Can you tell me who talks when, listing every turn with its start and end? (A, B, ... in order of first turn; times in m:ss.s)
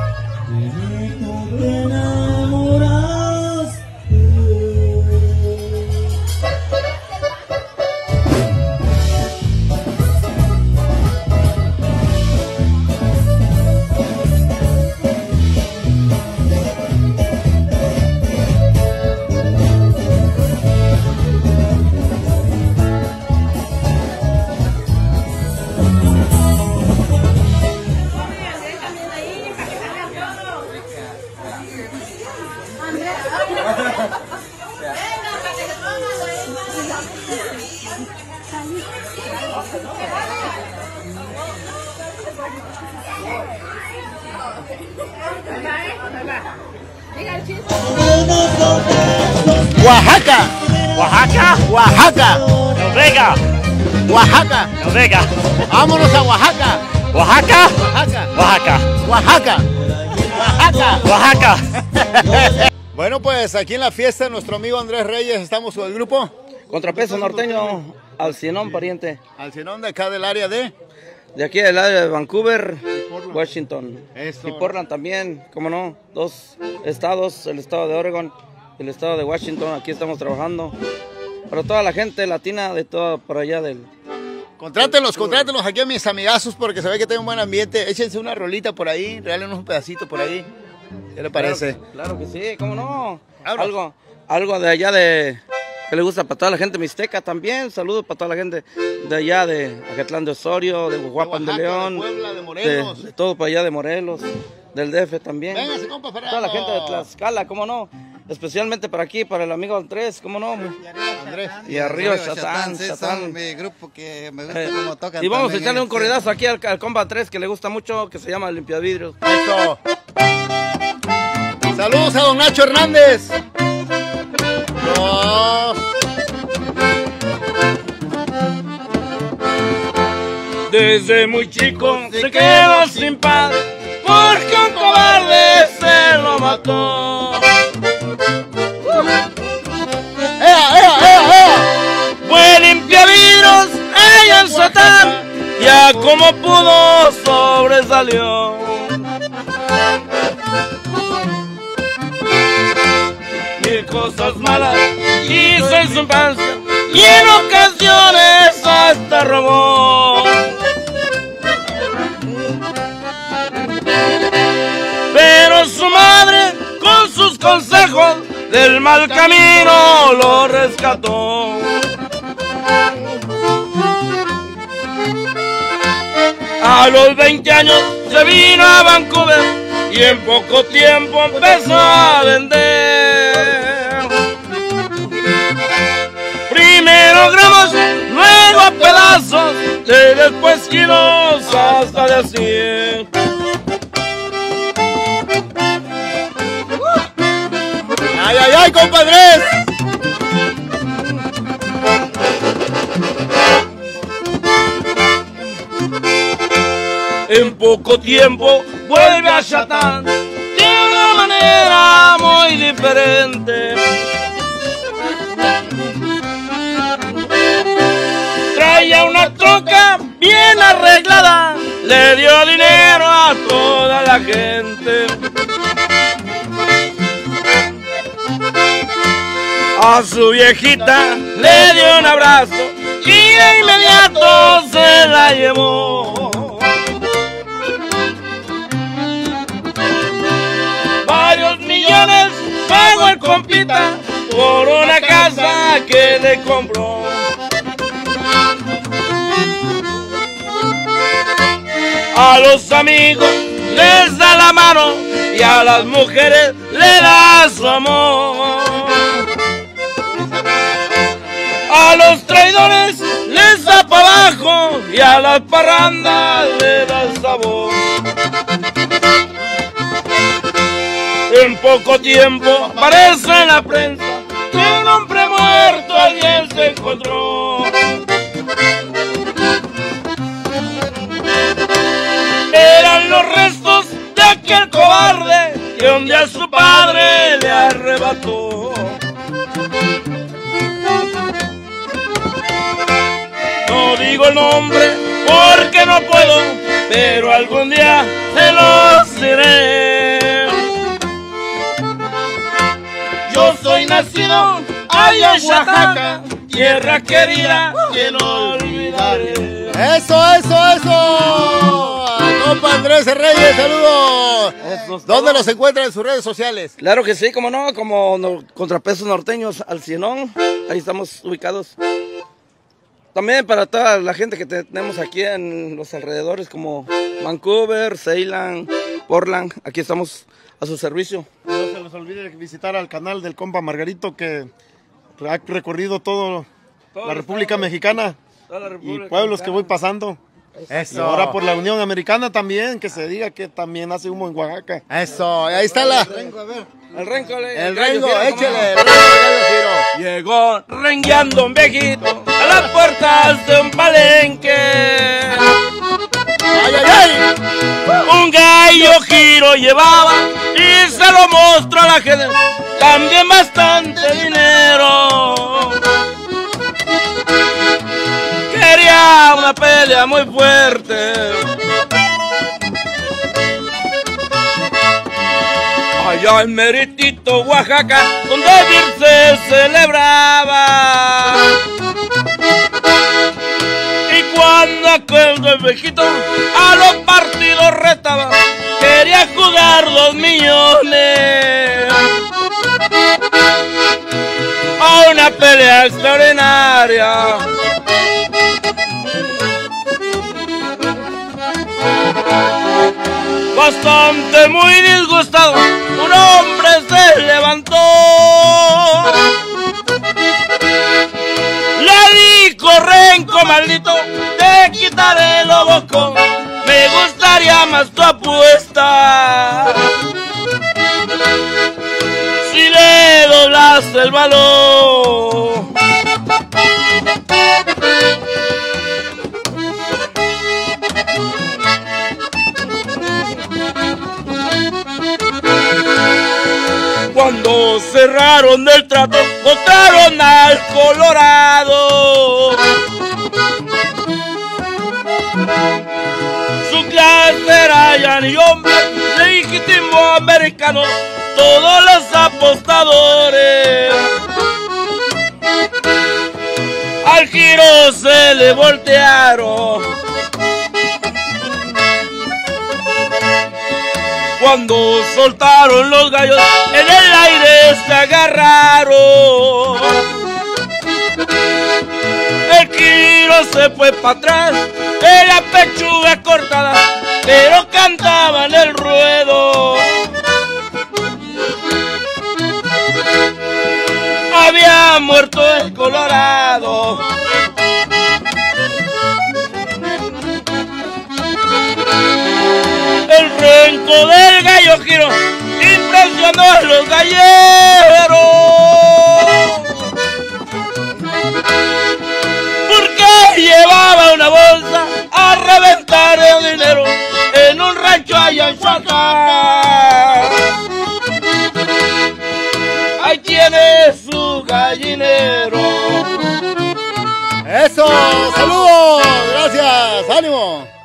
0:00.5-0:05.4 A
0:49.6-0:50.6 B
0:50.9-0:51.6 C
0:51.5-0:52.4 B
0:52.7-0:53.4 C
0:54.0-0:54.7 B
0:54.8-0:55.3 C
0:55.7-0:58.4 B
0:57.1-0:57.8 C
0:58.3-0:58.9 C
0:58.9-0:59.7 B
1:00.2-1:01.1 B
1:01.0-1:01.7 C
1:01.8-1:06.3 B
1:06.7-1:09.2 A
1:09.4-1:10.7 B
1:11.3-1:20.8 A
1:14.1-1:14.8 B
1:21.5-1:23.9 A
1:24.6-1:30.5 B
1:24.8-1:25.5 A
1:31.2-1:42.0 A
1:31.3-1:31.8 B
1:33.4-1:33.8 B
1:41.2-1:43.1 B
1:42.6-1:45.7 A
1:45.5-1:47.1 B
1:46.3-1:50.8 A
1:51.1-1:51.6 B
1:51.6-1:53.4 A
1:51.6-1:56.2 D
1:54.5-1:59.2 A
1:59.2-1:59.8 B
2:01.7-2:03.4 B
2:04.8-2:05.8 B
2:10.7-2:17.5 A
2:12.4-2:12.7 B
2:20.4-2:21.7 B
2:22.2-2:29.0 A
2:33.6-2:40.5 A
2:45.1-2:51.9 A
2:56.6-3:04.2 A
3:06.5-3:13.1 A
3:18.1-3:19.6 B
3:27.3-3:33.8 A
3:38.5-3:45.2 A
3:49.7-3:56.7 A
4:01.0-4:07.3 A
4:12.1-4:19.2 A
4:21.7-4:27.8 A
4:31.3-4:37.8 A
4:42.5-4:49.0 A
4:53.6-5:00.7 A
5:03.2-5:09.8 A
5:05.2-5:06.1 E
5:07.2-5:07.6 E
5:08.2-5:09.2 E
5:09.7-5:16.7 B
5:14.6-5:15.4 A
5:16.8-5:21.8 A
5:23.1-5:31.3 A
5:31.5-5:34.5 E
5:35.2-5:36.5 E
5:37.0-5:37.7 A
5:37.0-5:38.2 E
5:38.5-5:39.7 A
5:38.8-5:40.2 E
5:40.7-5:41.4 B
5:40.9-5:44.8 E
5:44.9-5:46.3 B
5:46.9-5:48.7 A
5:47.5-5:49.9 B
5:49.9-5:55.6 A
5:56.5-5:57.3 B
5:57.9-6:05.8 A
6:08.5-6:11.5 A
6:16.0-6:21.6 A
6:24.1-6:32.2 A
6:34.8-6:37.5 A
6:43.5-6:49.3 A
6:51.7-7:00.0 A
7:02.4-7:05.7 A
7:17.1-7:22.7 A
7:26.6-7:34.1 A
7:37.0-7:39.9 A
7:44.4-7:50.2 A
7:52.4-8:00.1 A
8:04.3-8:07.0 A
8:13.0-8:19.9 A
8:22.6-8:30.5 A
8:33.0-8:36.2 A
8:37.4-8:40.7 B